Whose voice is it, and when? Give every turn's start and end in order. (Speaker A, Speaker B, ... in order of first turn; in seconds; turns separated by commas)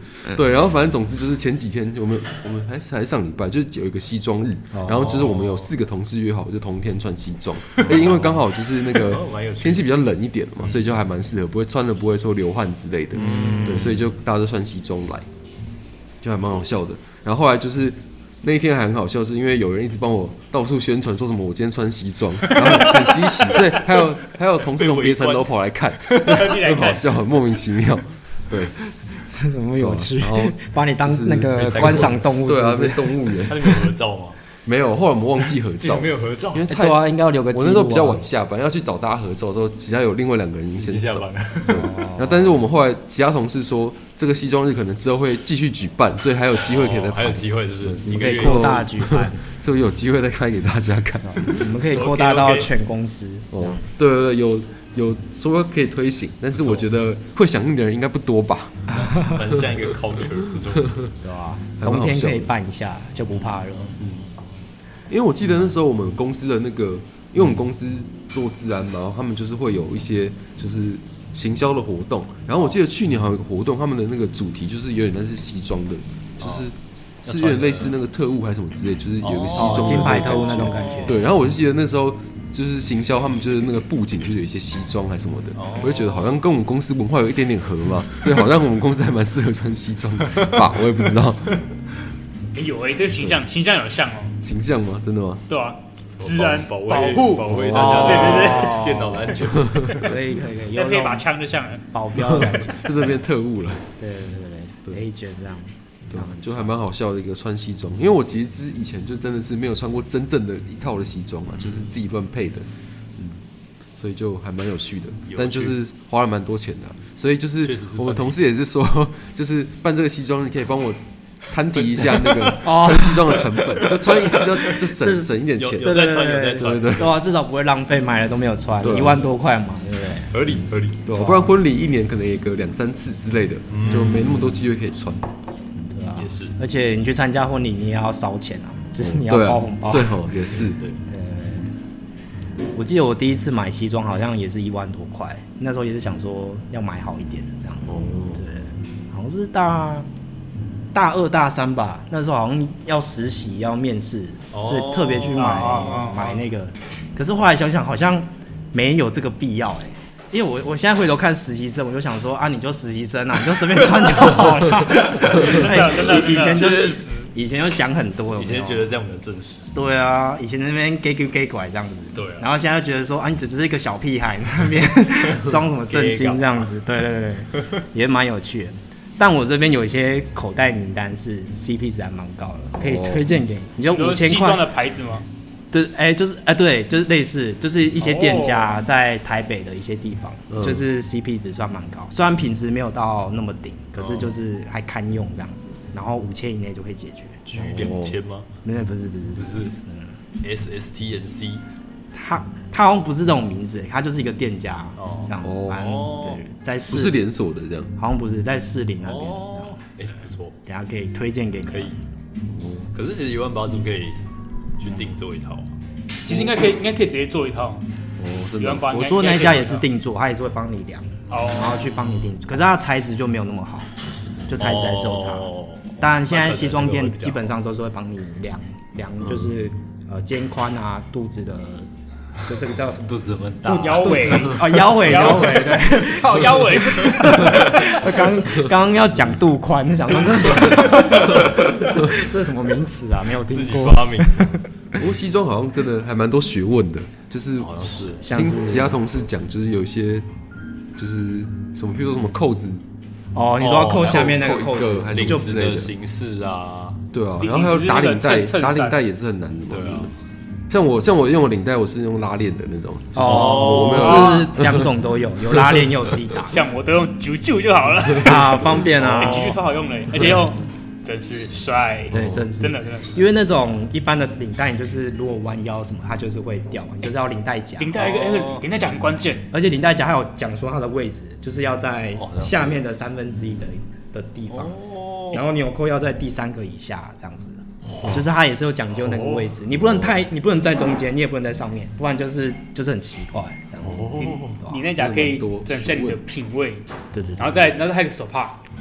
Speaker A: 0.2-15.2, Speaker B: 4.7-5.1, Speaker C: 4.9-5.7, Speaker C: 7.8-9.9, Speaker C: 13.1-14.1, Speaker B: 13.2-13.9, Speaker A: 16.2-28.7, Speaker C: 22.4-24.1, Speaker C: 24.6-26.5, Speaker D: 26.2-27.0, Speaker B: 28.9-33.2, Speaker A: 29.8-33.8, Speaker C: 31.6-32.2, Speaker C: 33.5-34.4, Speaker A: 34.6-37.0, Speaker C: 35.8-36.7, Speaker B: 36.7-38.2, Speaker A: 37.5-51.7, Speaker C: 40.8-41.9, Speaker B: 41.7-42.5, Speaker C: 46.6-48.9, Speaker B: 48.0-49.4, Speaker B: 51.3-53.8, Speaker C: 51.9-52.7, Speaker A: 53.5-58.8, Speaker C: 56.5-56.9, Speaker C: 59.2-61.1, Speaker B: 61.2-64.0, Speaker A: 61.8-62.5, Speaker A: 65.1-91.6, Speaker C: 76.4-76.7, Speaker C: 77.2-78.0, Speaker C: 79.2-81.2, Speaker B: 79.5-81.2, Speaker C: 85.5-86.3, Speaker D: 92.5-94.4, Speaker A: 94.4-95.4, Speaker D: 95.5-98.8, Speaker C: 96.2-100.2, Speaker A: 97.5-98.5, Speaker B: 97.7-101.3, Speaker D: 100.7-102.6, Speaker B: 101.9-102.8, Speaker A: 102.8-103.9, Speaker B: 104.0-106.7, Speaker A: 106.1-113.4, Speaker A: 114.0-126.0, Speaker C: 115.2-115.7, Speaker C: 117.6-118.4, Speaker C: 121.9-122.7, Speaker B: 122.6-123.4, Speaker C: 123.5-124.8, Speaker B: 124.9-130.3, Speaker C: 125.6-127.2, Speaker A: 126.6-127.2, Speaker A: 128.8-129.3, Speaker C: 130.3-131.1, Speaker A: 131.1-135.3, Speaker B: 131.1-131.5, Speaker C: 133.7-134.3, Speaker B: 135.8-140.2, Speaker C: 136.2-136.6, Speaker A: 139.0-140.8, Speaker C: 140.6-141.0, Speaker B: 141.1-141.7, Speaker B: 142.7-150.1, Speaker A: 147.9-148.4, Speaker B: 150.9-168.9, Speaker C: 154.5-155.8, Speaker D: 155.3-156.4, Speaker D: 164.3-166.7, Speaker C: 165.2-167.3, Speaker C: 168.4-169.7, Speaker B: 169.7-184.7, Speaker C: 172.1-172.5, Speaker C: 175.9-176.6, Speaker A: 182.8-183.2, Speaker D: 183.9-185.3, Speaker B: 185.7-197.4, Speaker D: 188.0-188.8, Speaker A: 190.5-190.8, Speaker C: 194.0-194.3, Speaker C: 197.4-198.5, Speaker A: 197.5-198.2, Speaker B: 198.6-200.1, Speaker C: 199.3-199.8, Speaker C: 200.4-201.6, Speaker B: 202.1-207.2, Speaker C: 205.0-206.5, Speaker A: 205.4-205.8, Speaker A: 206.9-207.9, Speaker B: 207.9-209.8, Speaker C: 209.0-210.5, Speaker B: 210.7-212.0, Speaker C: 211.7-211.9, Speaker A: 212.5-212.9, Speaker C: 212.9-214.2, Speaker C: 214.8-215.7, Speaker D: 216.2-217.8, Speaker A: 218.2-218.8, Speaker D: 218.6-219.8, Speaker B: 218.9-231.9, Speaker C: 221.3-221.9, Speaker D: 221.3-221.7, Speaker C: 224.5-227.5, Speaker B: 232.4-244.6, Speaker C: 233.0-234.9, Speaker D: 233.8-237.8, Speaker C: 243.3-244.6, Speaker A: 245.0-250.3, Speaker C: 247.6-248.2, Speaker B: 248.2-249.0, Speaker A: 250.9-252.8, Speaker B: 253.3-255.5, Speaker C: 253.6-254.4, Speaker A: 253.8-255.9, Speaker C: 255.1-257.0, Speaker A: 257.1-260.1, Speaker D: 257.4-259.0, Speaker C: 259.7-260.1, Speaker A: 260.7-264.9, Speaker B: 263.1-266.6, Speaker C: 263.2-264.3, Speaker D: 264.0-264.5, Speaker D: 266.5-273.3, Speaker B: 268.2-269.6, Speaker C: 268.7-269.6, Speaker B: 272.1-277.9, Speaker D: 277.8-279.5, Speaker C: 277.9-278.7, Speaker B: 279.5-294.1, Speaker C: 282.2-282.8, Speaker C: 284.5-285.4, Speaker C: 289.0-289.5, Speaker C: 293.8-294.6, Speaker D: 294.1-298.6, Speaker A: 294.9-296.2, Speaker B: 297.1-297.5